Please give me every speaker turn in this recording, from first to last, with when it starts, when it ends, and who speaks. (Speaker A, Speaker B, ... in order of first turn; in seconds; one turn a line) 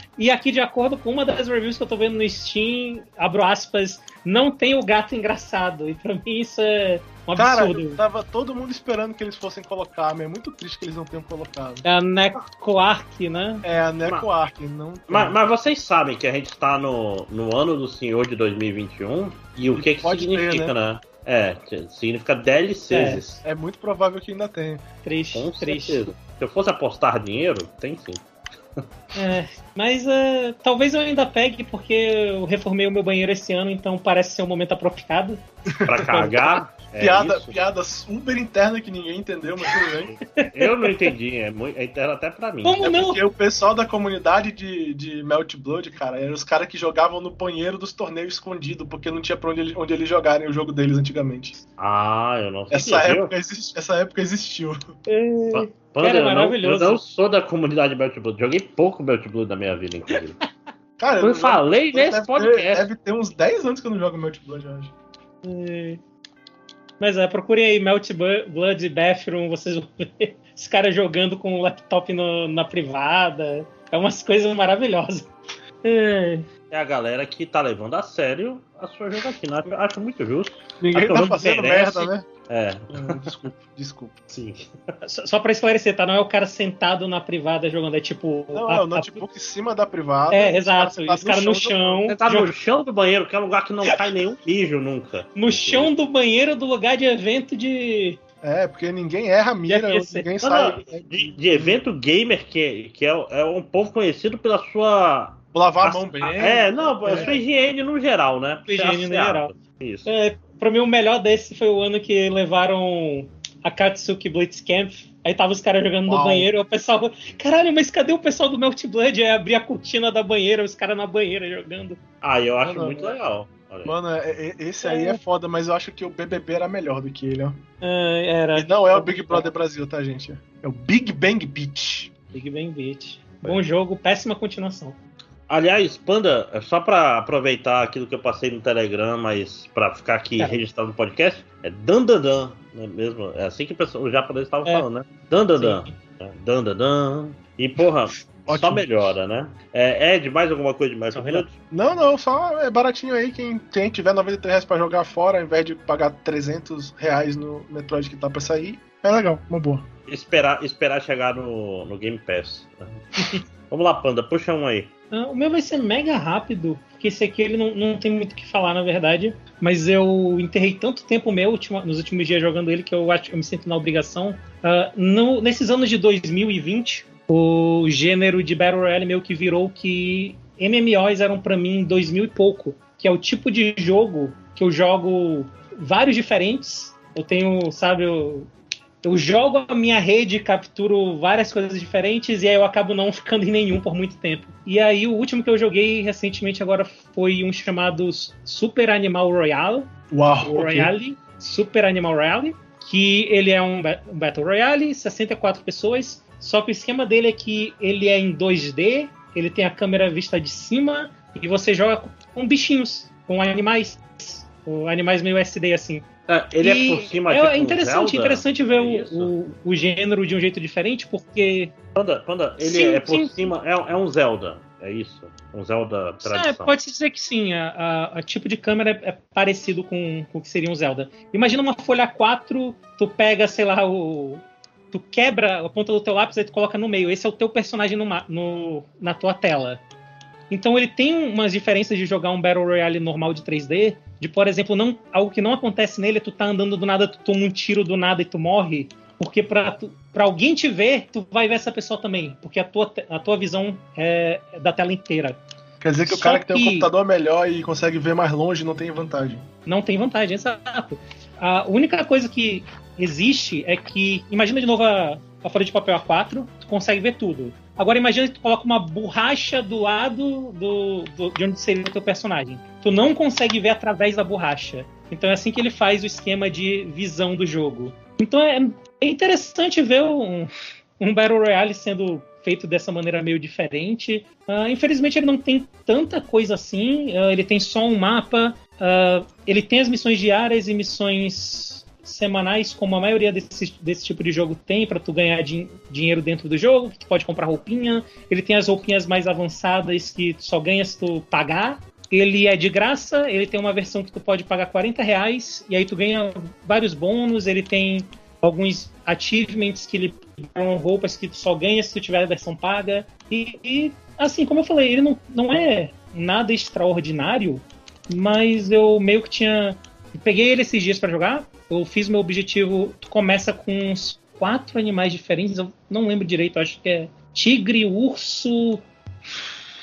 Speaker A: 0.2-8.0
Speaker B: 7.4-11.8
Speaker A: 11.8-13.6
Speaker B: 13.6-15.4
Speaker C: 15.1-23.4
Speaker B: 19.7-20.7
Speaker A: 22.9-23.2
Speaker B: 23.4-24.8
Speaker A: 25.0-26.0
Speaker C: 25.3-28.2
Speaker A: 29.1-35.4
Speaker C: 35.9-37.6
Speaker A: 36.0-36.5
Speaker B: 37.0-40.1
Speaker A: 39.7-41.1
Speaker C: 40.5-42.8
Speaker A: 42.6-43.2
Speaker B: 42.8-51.6
Speaker C: 51.8-53.3
Speaker B: 52.7-54.8
Speaker A: 55.1-57.0
Speaker C: 55.5-60.4
Speaker A: 60.1-60.4
Speaker B: 61.0-64.9
Speaker C: 61.2-62.9
Speaker A: 65.4-66.0
Speaker A: 67.0-75.3
Speaker A: 75.8-76.5
Speaker C: 76.7-83.3
Speaker B: 80.8-82.3
Speaker B: 82.9-84.1
Speaker C: 84.3-84.7
Speaker A: 85.0-89.2
Speaker B: 88.5-92.1
Speaker A: 90.3-92.5
Speaker C: 92.1-95.9
Speaker A: 95.3-98.2
Speaker B: 98.4-101.7
Speaker A: 99.7-100.3
Speaker C: 100.4-110.1
Speaker B: 105.5-107.4
Speaker A: 106.2-107.4
Speaker A: 108.7-109.5
Speaker A: 110.1-122.0
Speaker B: 116.1-116.5
Speaker C: 122.2-124.0
Speaker B: 122.6-123.2
Speaker B: 123.8-127.6
Speaker A: 124.8-125.2
Speaker A: 127.8-129.5
Speaker B: 128.5-132.1
Speaker A: 132.3-135.0
Speaker C: 135.5-151.5
Speaker A: 145.6-145.9
Speaker B: 148.5-148.8
Speaker B: 151.7-159.9
Speaker C: 160.1-163.0
Speaker C: 163.7-164.9
Speaker A: 165.1-188.5
Speaker A: 189.0-199.9
Speaker B: 200.1-200.9
Speaker A: 200.4-216.1
Speaker C: 216.3-219.3
Speaker A: 216.6-221.7
Speaker C: 221.9-226.7
Speaker A: 222.6-223.5
Speaker A: 226.2-239.8
Speaker A: 240.5-255.4
Speaker B: 255.8-259.5
Speaker A: 256.1-256.9
Speaker A: 259.7-329.5